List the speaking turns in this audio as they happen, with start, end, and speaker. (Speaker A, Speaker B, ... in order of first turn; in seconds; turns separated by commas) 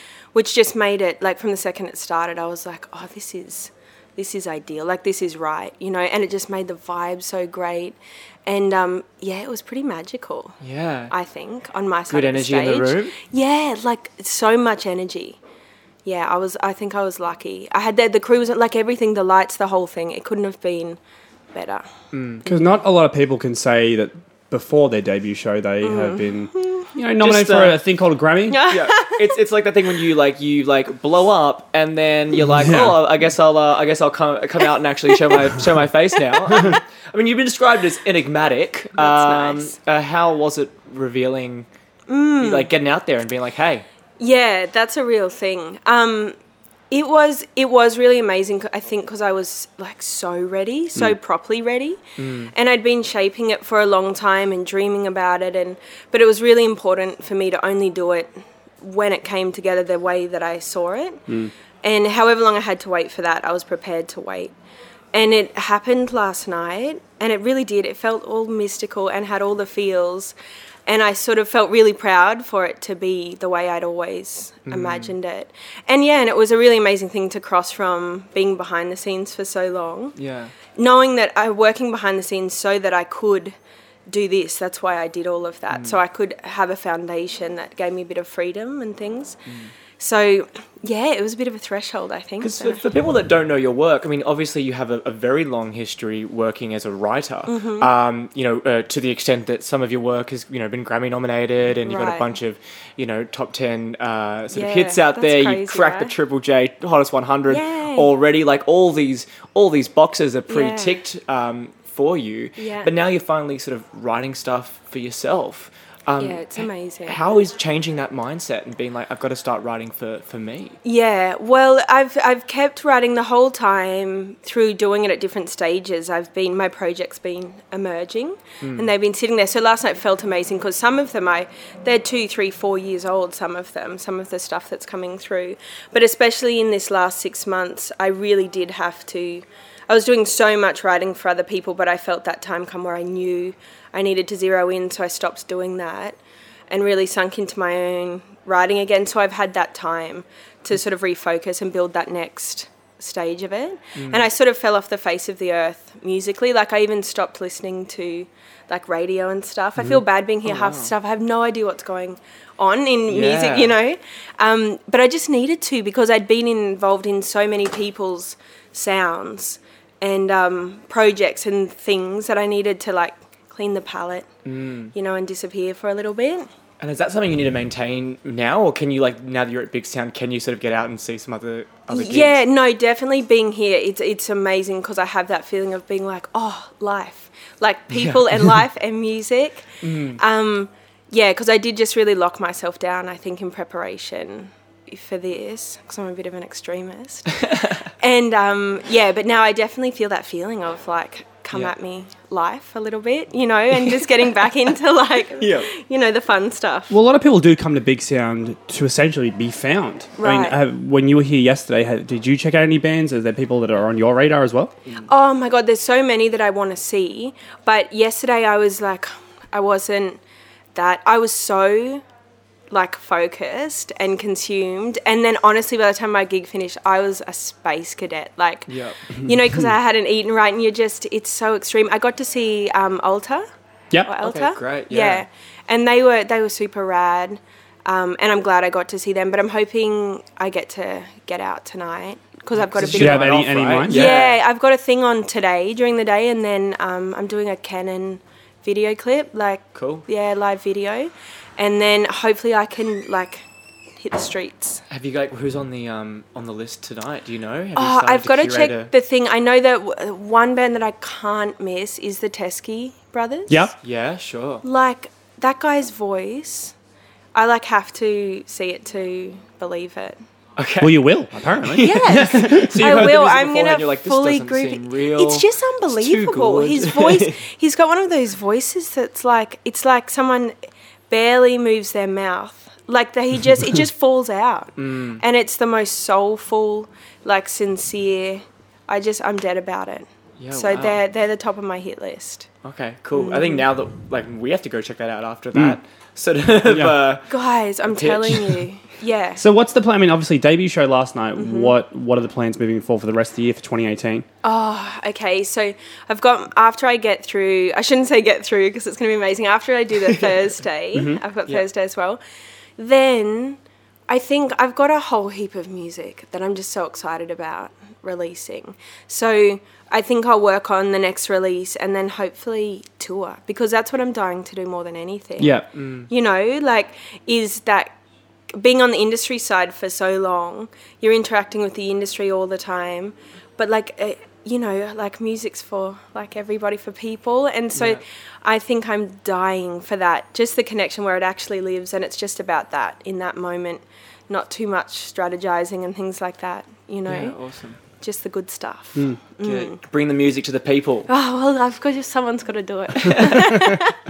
Speaker A: 0.3-10.6, Speaker B: 10.6-11.1, Speaker A: 11.1-15.4, Speaker B: 12.1-13.1, Speaker A: 16.0-21.0, Speaker A: 21.5-21.9, Speaker B: 22.1-22.4, Speaker C: 22.4-28.6, Speaker A: 25.8-26.9, Speaker B: 27.2-27.8, Speaker A: 28.5-29.3, Speaker B: 28.7-41.7, Speaker C: 32.6-33.0, Speaker A: 39.0-39.8, Speaker A: 42.1-42.7, Speaker B: 42.4-43.8, Speaker A: 44.2-46.3, Speaker A: 46.9-52.0, Speaker B: 52.2-52.5, Speaker A: 52.5-61.2, Speaker A: 61.8-64.5, Speaker A: 65.1-70.3, Speaker A: 70.9-80.2, Speaker B: 74.7-75.1, Speaker B: 80.2-80.5, Speaker A: 80.8-83.5, Speaker A: 84.1-89.4, Speaker B: 85.7-86.0, Speaker B: 89.5-89.7, Speaker A: 90.0-92.8, Speaker B: 92.4-120.8, Speaker A: 97.5-97.9, Speaker A: 101.8-102.3, Speaker A: 104.5-106.1, Speaker A: 107.5-108.1, Speaker A: 110.5-111.0, Speaker A: 112.6-112.9, Speaker A: 116.2-117.2, Speaker A: 120.8-146.2, Speaker B: 128.6-128.9, Speaker A: 146.7-174.3, Speaker B: 153.9-154.2, Speaker B: 159.8-160.9, Speaker B: 163.1-163.7, Speaker B: 174.4-174.9, Speaker A: 174.9-176.5, Speaker B: 176.8-182.4, Speaker A: 181.9-207.0, Speaker B: 187.9-188.6, Speaker B: 189.8-190.2, Speaker B: 205.4-205.7, Speaker C: 206.9-214.7, Speaker A: 210.2-210.6, Speaker A: 215.1-220.2, Speaker A: 220.7-222.0, Speaker A: 222.7-228.7, Speaker B: 228.7-229.0, Speaker A: 229.2-233.4, Speaker A: 234.0-253.4, Speaker B: 234.2-235.2, Speaker B: 242.6-244.4, Speaker C: 242.8-244.2, Speaker B: 249.7-250.1, Speaker A: 254.0-254.8, Speaker B: 254.9-258.9, Speaker A: 257.7-263.7, Speaker C: 263.5-263.7, Speaker B: 263.8-264.6, Speaker A: 264.6-266.7, Speaker A: 267.3-270.2, Speaker B: 270.6-277.4, Speaker C: 270.8-272.7, Speaker A: 271.7-280.5, Speaker A: 281.1-292.5, Speaker B: 284.8-285.2, Speaker B: 290.4-291.0, Speaker B: 292.6-297.3, Speaker A: 293.1-293.7, Speaker C: 295.5-295.8, Speaker C: 296.6-297.1, Speaker A: 297.3-299.4, Speaker B: 297.9-298.6, Speaker C: 299.4-304.2, Speaker A: 301.4-301.8, Speaker A: 304.4-312.2, Speaker C: 310.9-311.2, Speaker A: 312.8-327.9, Speaker C: 325.4-325.6, Speaker B: 325.4-326.1, Speaker A: 328.5-347.4, Speaker B: 337.7-338.0, Speaker B: 347.1-347.8, Speaker A: 348.0-349.8, Speaker B: 349.4-351.1, Speaker A: 351.1-353.9, Speaker C: 353.3-353.8